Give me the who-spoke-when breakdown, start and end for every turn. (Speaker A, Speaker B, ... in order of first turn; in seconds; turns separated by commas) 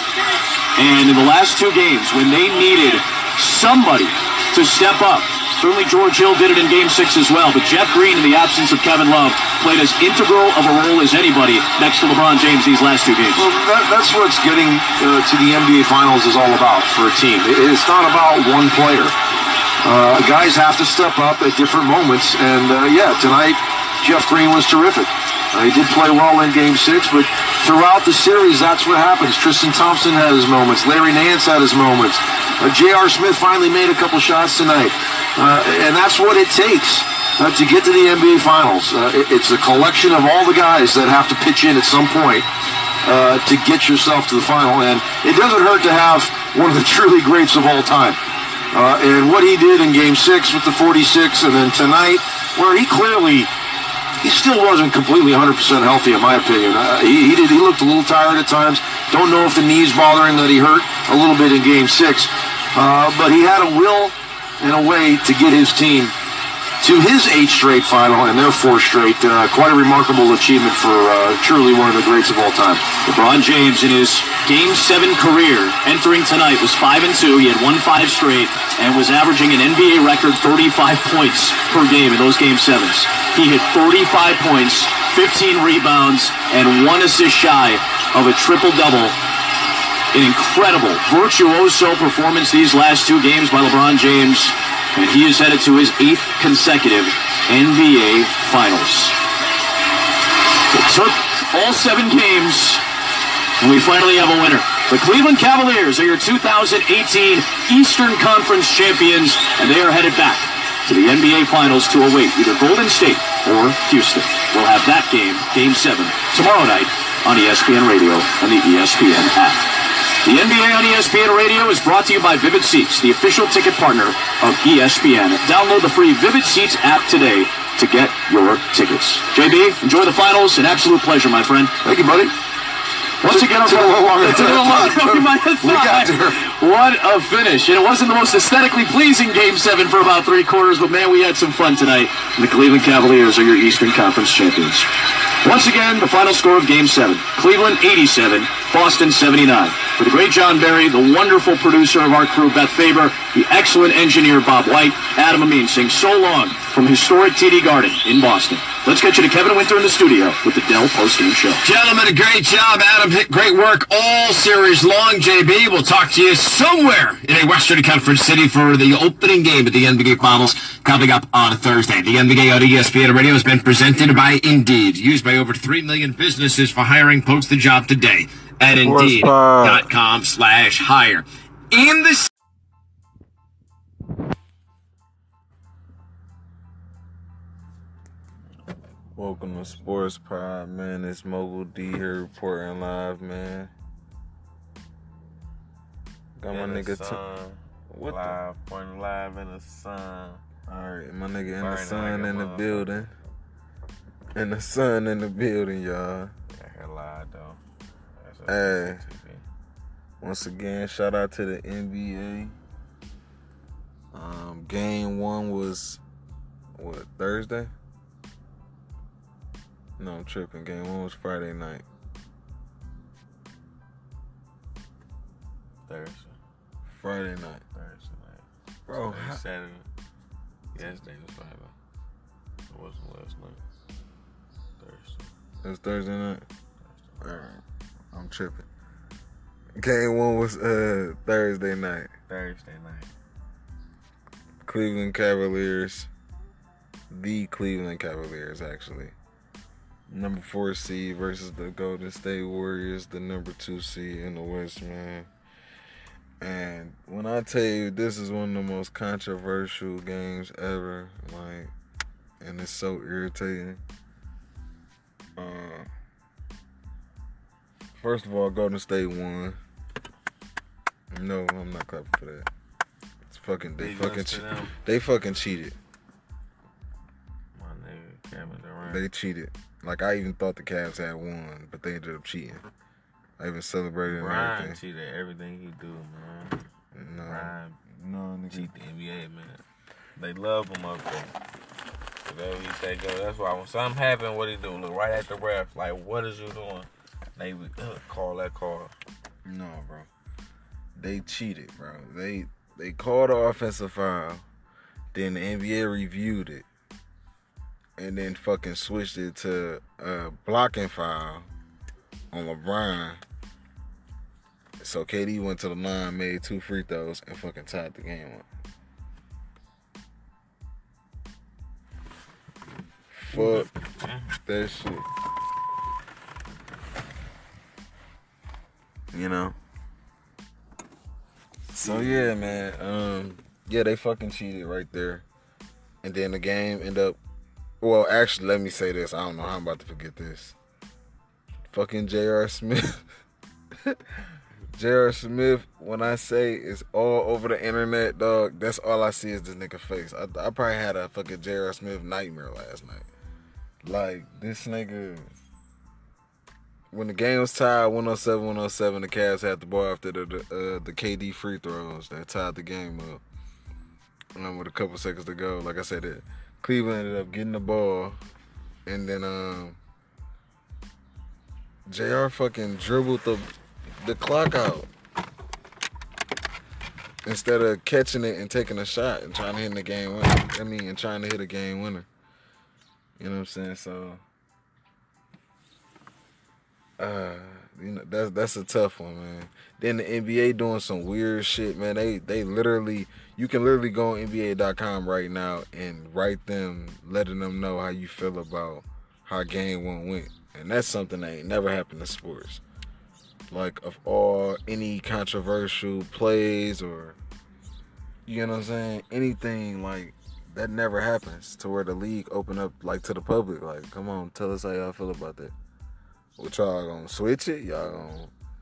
Speaker A: 0.8-13.5, Speaker B: 13.3-19.1, Speaker B: 19.8-42.5, Speaker B: 43.0-48.2, Speaker B: 48.7-53.5, Speaker B: 54.2-66.2, Speaker B: 66.8-73.0, Speaker A: 72.9-89.2, Speaker A: 90.1-99.2, Speaker A: 100.7-102.8, Speaker A: 103.6-119.7, Speaker A: 120.2-131.8, Speaker B: 131.8-132.3, Speaker A: 133.2-144.9, Speaker B: 133.2-136.5, Speaker A: 145.4-161.6, Speaker C: 161.6-182.3, Speaker D: 178.8-179.9, Speaker D: 189.2-193.7, Speaker D: 196.4-197.2, Speaker E: 196.5-200.4, Speaker D: 197.9-198.4, Speaker D: 200.7-203.1, Speaker E: 201.6-202.9, Speaker D: 204.3-206.3, Speaker E: 206.5-207.6, Speaker E: 208.2-209.4, Speaker D: 208.5-209.0, Speaker D: 210.2-212.5, Speaker D: 214.1-216.0, Speaker D: 216.8-217.7, Speaker D: 220.0-221.8, Speaker E: 225.9-226.4, Speaker D: 226.9-227.6, Speaker E: 227.7-229.9, Speaker D: 228.9-229.4, Speaker E: 230.7-231.7, Speaker E: 232.7-233.6, Speaker E: 234.8-235.3, Speaker D: 235.6-236.4, Speaker E: 236.8-237.4, Speaker D: 237.2-238.7, Speaker D: 239.8-242.1, Speaker E: 242.3-243.1, Speaker D: 244.7-246.1, Speaker D: 247.1-249.2, Speaker D: 250.1-255.3, Speaker D: 256.4-261.7, Speaker D: 262.4-263.8, Speaker D: 265.4-265.9, Speaker D: 268.0-269.6, Speaker D: 271.1-272.5, Speaker D: 273.3-275.8, Speaker E: 273.8-274.8, Speaker E: 277.6-279.1, Speaker D: 278.8-282.6, Speaker D: 283.4-284.8, Speaker E: 284.1-286.6, Speaker D: 286.9-288.7, Speaker E: 287.2-287.8, Speaker E: 288.5-289.6, Speaker E: 290.2-291.4, Speaker E: 292.2-298.9, Speaker D: 299.4-300.1, Speaker D: 300.9-304.4, Speaker D: 305.1-306.7, Speaker D: 308.0-311.5, Speaker D: 312.3-313.2, Speaker D: 314.8-318.5, Speaker D: 323.1-323.7, Speaker E: 323.3-324.3, Speaker D: 324.4-325.0, Speaker D: 329.1-329.6, Speaker D: 331.7-335.2, Speaker E: 331.8-332.7, Speaker D: 336.0-337.2, Speaker D: 337.8-340.6, Speaker D: 341.7-343.0, Speaker D: 344.7-353.1, Speaker D: 353.8-355.3, Speaker D: 356.9-363.2, Speaker D: 364.4-368.2, Speaker D: 368.9-369.8, Speaker D: 371.9-373.5, Speaker D: 374.0-374.9, Speaker D: 377.2-382.1, Speaker D: 383.2-384.2, Speaker D: 387.0-402.6, Speaker D: 403.5-407.2, Speaker D: 408.3-415.5, Speaker D: 416.4-418.3